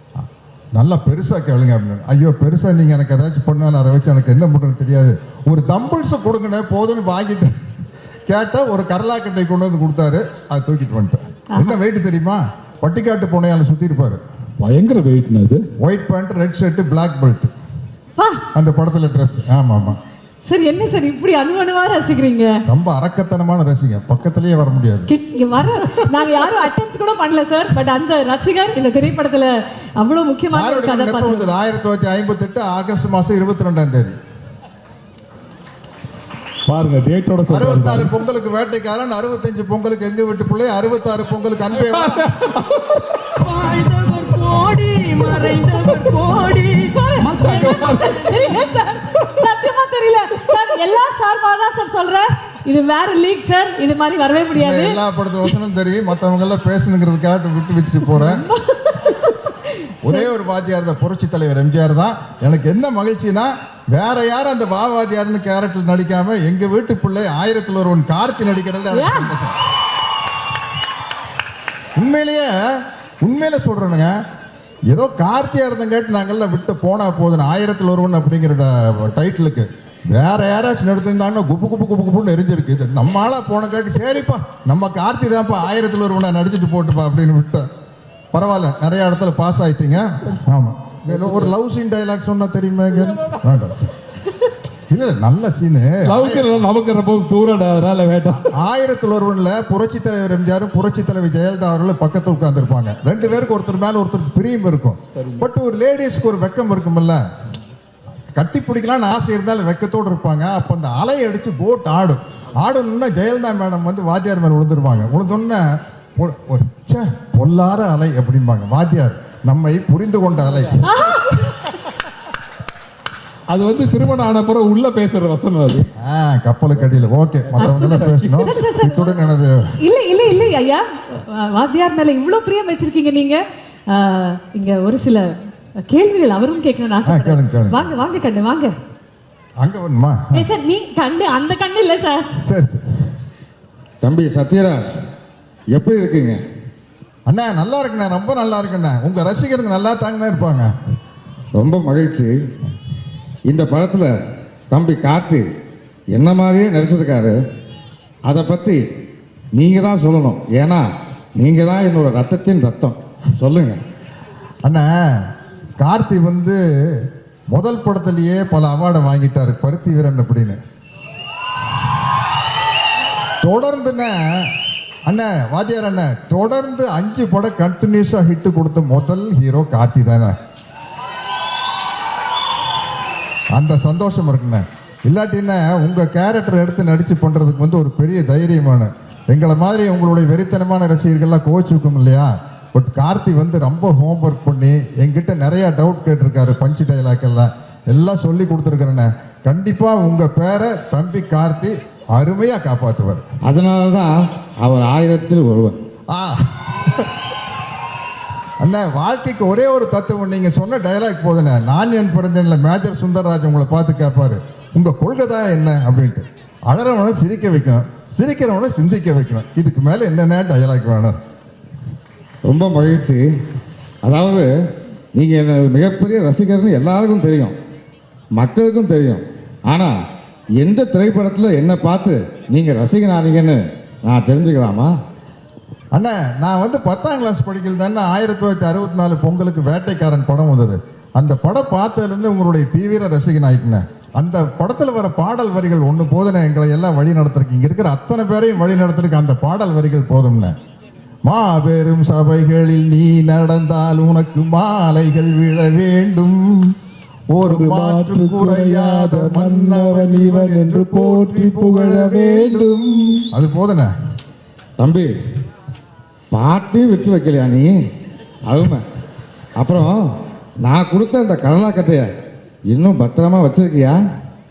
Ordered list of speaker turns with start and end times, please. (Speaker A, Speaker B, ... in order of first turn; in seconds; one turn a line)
Speaker A: 0.7-7.6
Speaker A: 8.3-14.2
Speaker B: 11.5-11.8
Speaker C: 14.6-15.6
Speaker A: 15.8-17.5
Speaker B: 18.2-18.4
Speaker A: 18.6-20.0
Speaker B: 20.5-22.6
Speaker A: 22.7-25.1
Speaker B: 25.1-31.5
Speaker A: 30.5-34.2
Speaker C: 36.7-38.1
Speaker A: 37.5-42.3
Speaker C: 41.8-43.3
Speaker D: 43.4-48.4
Speaker B: 46.5-55.0
Speaker C: 47.4-48.2
Speaker A: 54.6-58.4
Speaker B: 58.1-60.3
Speaker A: 60.0-69.6
Speaker B: 68.9-69.3
Speaker A: 72.0-74.2
Speaker A: 74.9-87.7
Speaker A: 88.3-93.9
Speaker A: 94.9-96.4
Speaker C: 96.0-98.5
Speaker A: 98.5-107.2
Speaker C: 105.2-105.5
Speaker A: 108.4-120.8
Speaker B: 120.8-121.5
Speaker C: 123.5-125.9
Speaker A: 126.0-129.6
Speaker C: 127.5-128.5
Speaker B: 127.6-129.1
Speaker B: 129.8-135.2
Speaker B: 135.8-138.7
Speaker A: 137.1-137.8
Speaker A: 139.6-140.4
Speaker B: 140.3-142.3
Speaker A: 142.4-142.8
Speaker E: 144.0-145.0
Speaker E: 145.7-146.4
Speaker A: 147.3-150.7
Speaker E: 151.6-152.3
Speaker E: 153.5-154.1
Speaker E: 154.7-155.4
Speaker E: 156.1-157.4
Speaker E: 158.3-158.8
Speaker E: 159.6-163.8
Speaker A: 164.7-170.6
Speaker A: 173.4-174.5
Speaker A: 175.1-180.4
Speaker A: 183.5-203.2
Speaker E: 203.4-205.8
Speaker A: 206.1-207.1
Speaker A: 208.6-221.2
Speaker E: 222.4-223.2
Speaker E: 224.0-224.5
Speaker E: 225.1-227.6
Speaker E: 228.4-229.9
Speaker E: 230.6-234.9
Speaker A: 235.9-250.6
Speaker A: 251.3-256.8
Speaker A: 257.3-263.9
Speaker C: 257.4-263.3
Speaker E: 264.8-265.1
Speaker E: 266.3-267.7
Speaker E: 268.5-268.9
Speaker E: 269.6-270.0
Speaker E: 270.6-272.1
Speaker E: 272.7-274.0